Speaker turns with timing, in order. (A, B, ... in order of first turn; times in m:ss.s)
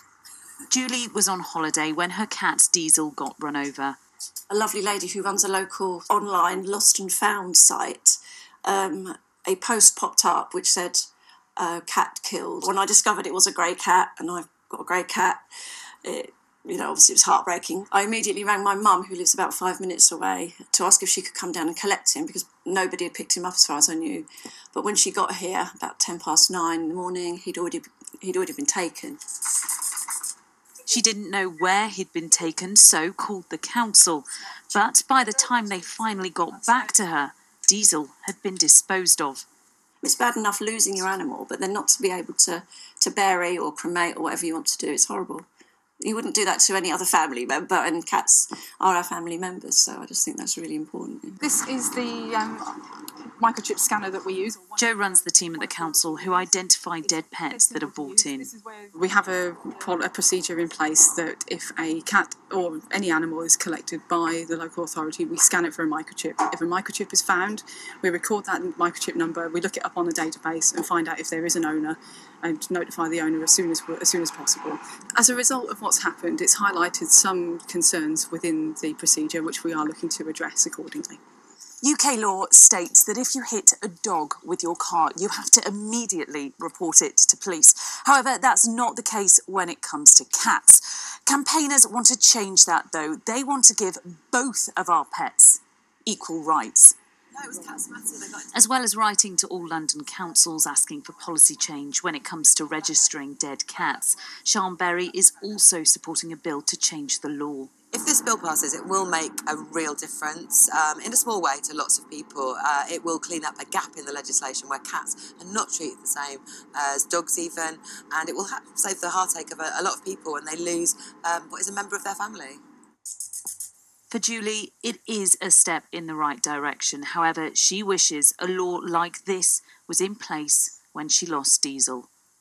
0:00.7-0:04.0 A
0:04.5-0:15.4 B
0:16.0-0:29.2 B
0:30.9-0:39.4 A
0:40.0-0:45.5 B
0:46.0-0:51.4 B
0:51.4-0:55.0 C
0:54.8-0:58.5 A
0:58.9-1:21.2 C
1:21.8-1:36.9 A
1:37.3-1:38.6 D
1:38.5-1:47.7 A
1:47.9-2:02.6 D
2:04.1-2:12.1 A